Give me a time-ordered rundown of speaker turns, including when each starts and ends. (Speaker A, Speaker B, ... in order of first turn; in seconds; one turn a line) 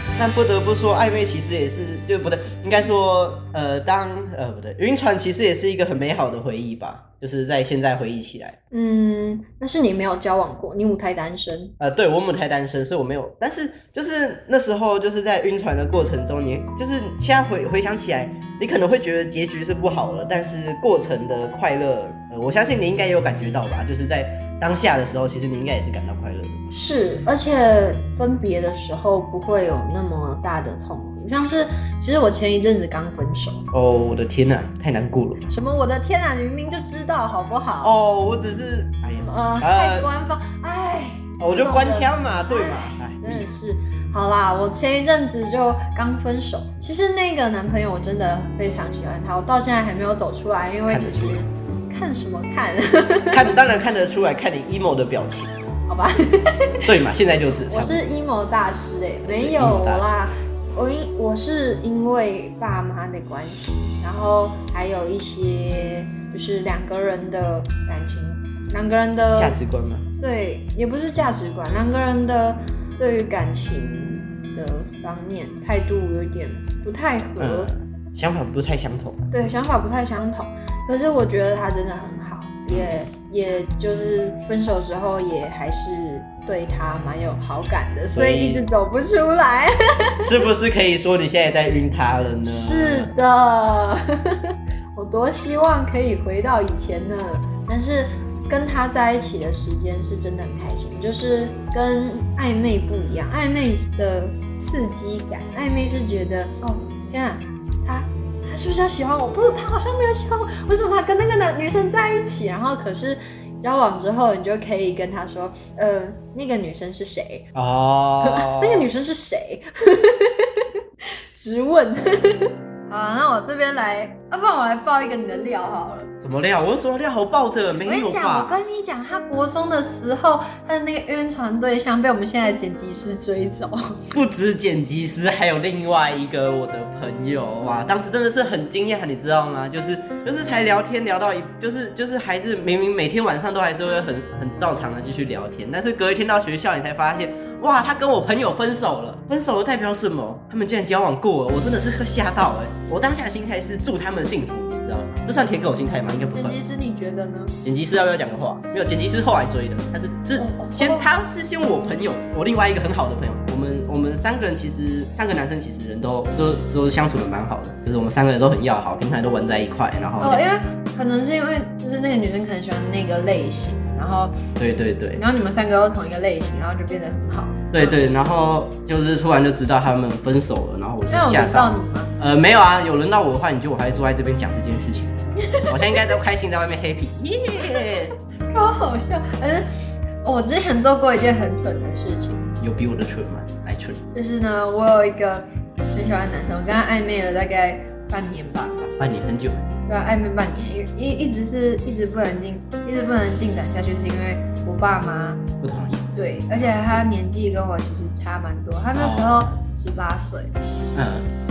Speaker A: 0.1-8.6
Speaker B: 8.7-11.7
Speaker A: 11.8-26.6
Speaker B: 26.7-33.6
Speaker A: 33.7-35.4
Speaker B: 35.5-37.9
Speaker A: 37.8-40.1
Speaker B: 39.1-53.5
Speaker A: 41.4-43.5
Speaker A: 50.9-51.4
Speaker A: 53.3-55.6
Speaker B: 55.9-56.9
Speaker A: 56.9-58.0
Speaker B: 57.7-69.6
Speaker A: 59.2-60.1
Speaker A: 69.3-70.1
Speaker B: 70.2-77.7
Speaker A: 77.4-79.3
Speaker B: 79.3-90.3
Speaker A: 82.7-83.0
Speaker A: 88.0-88.6
Speaker A: 90.2-93.1
Speaker B: 92.4-117.5
Speaker A: 117.5-118.9
Speaker B: 118.2-120.7
Speaker B: 121.3-126.1
Speaker A: 126.2-128.5
Speaker B: 127.8-134.1
Speaker A: 134.1-156.6
Speaker B: 156.3-157.6
Speaker A: 157.6-170.4
Speaker B: 160.3-161.1
Speaker B: 170.2-174.4
Speaker A: 174.6-175.2
Speaker B: 175.2-178.0
Speaker A: 177.7-188.1
Speaker B: 181.1-182.1
Speaker B: 185.4-186.1
Speaker B: 187.6-187.9
Speaker B: 188.5-189.7
Speaker B: 190.2-192.5
Speaker A: 192.6-194.0
Speaker B: 194.1-198.9
Speaker A: 198.8-199.6
Speaker B: 199.9-205.4
Speaker A: 205.6-206.1
Speaker B: 206.2-210.5
Speaker A: 206.6-206.9
Speaker A: 208.9-209.5
Speaker A: 210.9-211.3